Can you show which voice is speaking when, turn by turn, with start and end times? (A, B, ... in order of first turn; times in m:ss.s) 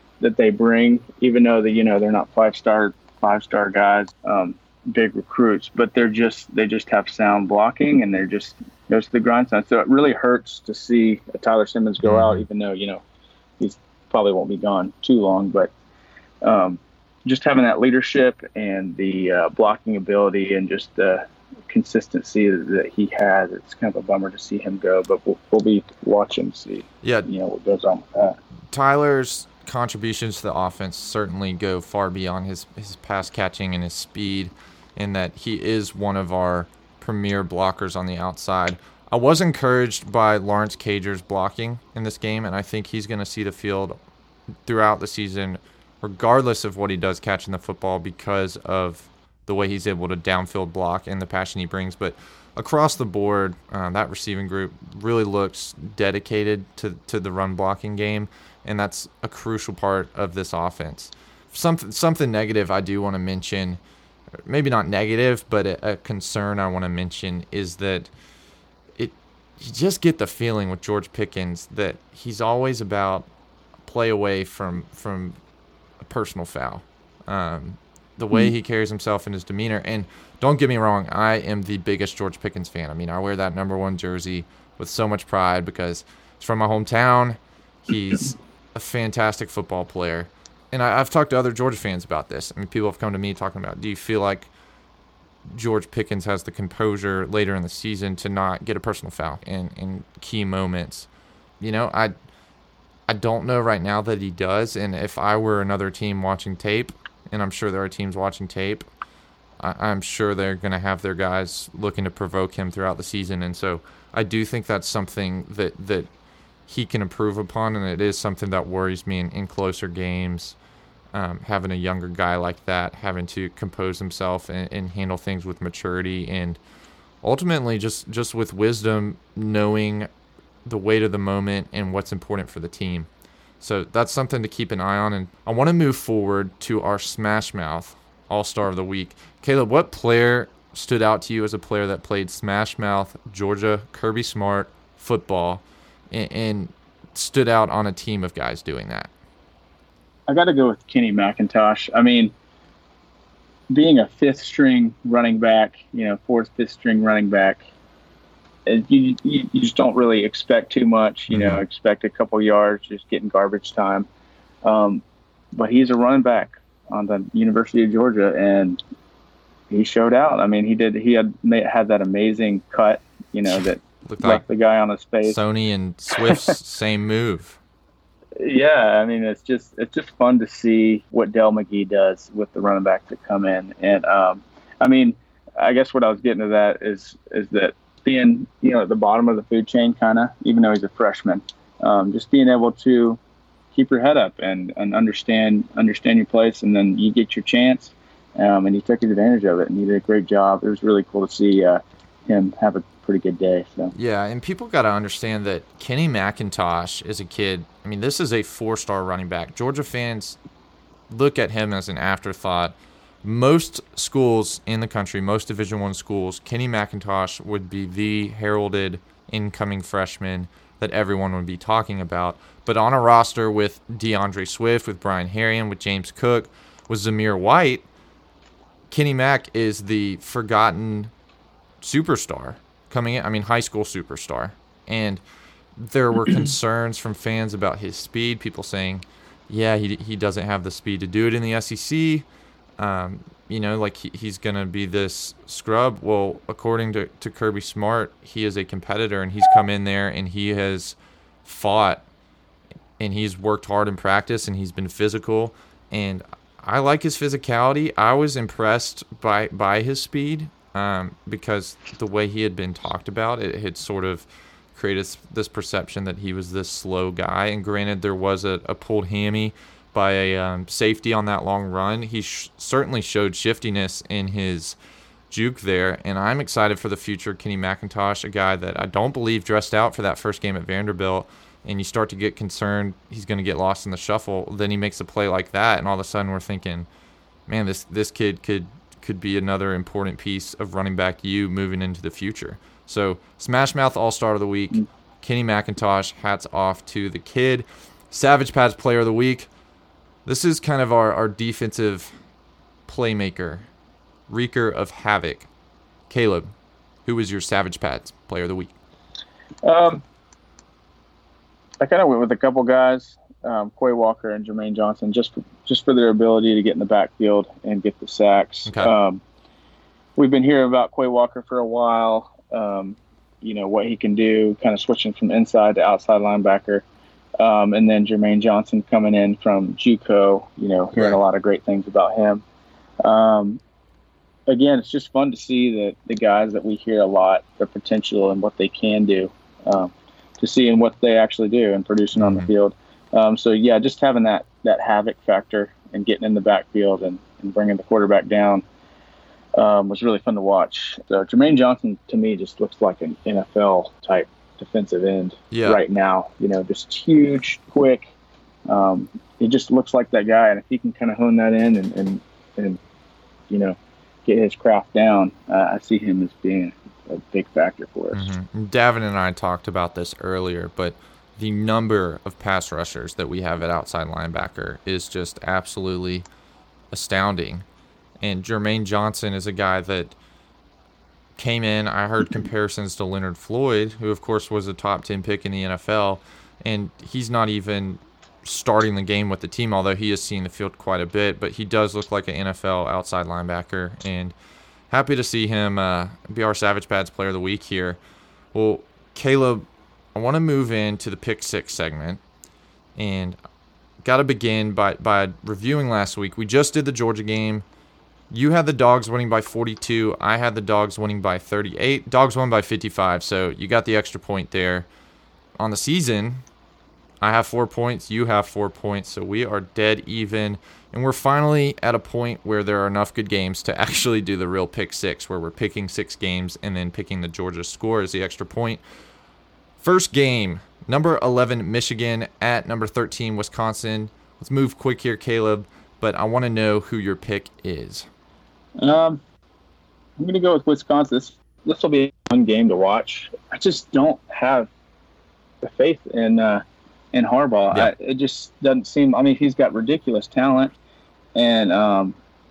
0:00.2-0:13.0 A
0:12.0-0:12.5 B
0:13.6-0:15.7 A
0:16.4-0:28.4 A
0:27.0-0:27.3 B
0:28.7-0:44.0 B
0:44.7-1:03.8 B
1:04.5-1:08.1 B
1:09.0-1:13.3 B
1:13.9-1:15.4 B
1:16.0-1:34.5 B
1:35.5-1:41.1 B
1:41.6-1:42.1 B
1:43.1-1:48.8 B
1:49.6-1:56.1 B
1:56.7-2:00.6 B
2:01.1-2:06.6 B
2:07.2-2:10.1 B
2:10.6-2:13.1 B
2:13.6-2:29.1 B
2:30.3-2:32.3 A
2:33.7-2:37.7 A
2:38.7-2:44.1 A
2:41.3-2:41.6 B
2:44.6-2:45.0 A
2:45.6-2:48.8 A
2:49.7-2:55.4 A
2:53.5-2:54.4 B
2:55.2-2:57.6 B
2:58.4-3:13.2 A
3:13.7-3:23.9 A
3:24.0-3:30.4 B
3:31.1-3:47.8 B
3:48.9-3:51.1 B
3:51.8-3:55.2 B
3:55.8-4:02.3 B
4:02.8-4:12.0 B
4:13.0-4:34.8 B
4:35.3-4:46.9 B
4:47.5-4:59.5 B
5:00.3-5:02.1 B
5:02.9-5:03.7 B
5:04.3-5:05.5 B
5:06.1-5:06.5 B
5:07.1-5:08.7 B
5:09.6-5:10.0 A
5:11.8-5:19.2 A
5:18.7-5:18.9 B
5:20.2-5:26.8 A
5:27.4-5:32.4 A
5:31.0-5:31.2 B
5:33.0-5:33.6 A
5:34.5-5:48.6 A
5:42.2-5:42.5 B
5:49.6-5:58.1 A
5:55.5-5:55.8 B
5:58.7-6:02.8 A
6:03.5-6:08.3 A
6:08.1-6:16.3 B
6:16.9-6:17.6 B
6:18.2-6:20.2 B
6:21.4-6:34.4 B
6:34.9-6:38.0 B
6:38.5-6:42.2 B
6:43.0-6:43.4 B
6:44.0-6:47.6 B
6:48.3-6:54.9 B
6:55.6-6:56.4 B
6:57.2-7:08.8 B
7:09.8-7:18.1 B
7:18.8-7:19.2 A
7:20.2-7:24.7 A
7:25.6-7:30.7 A
7:31.4-7:32.2 A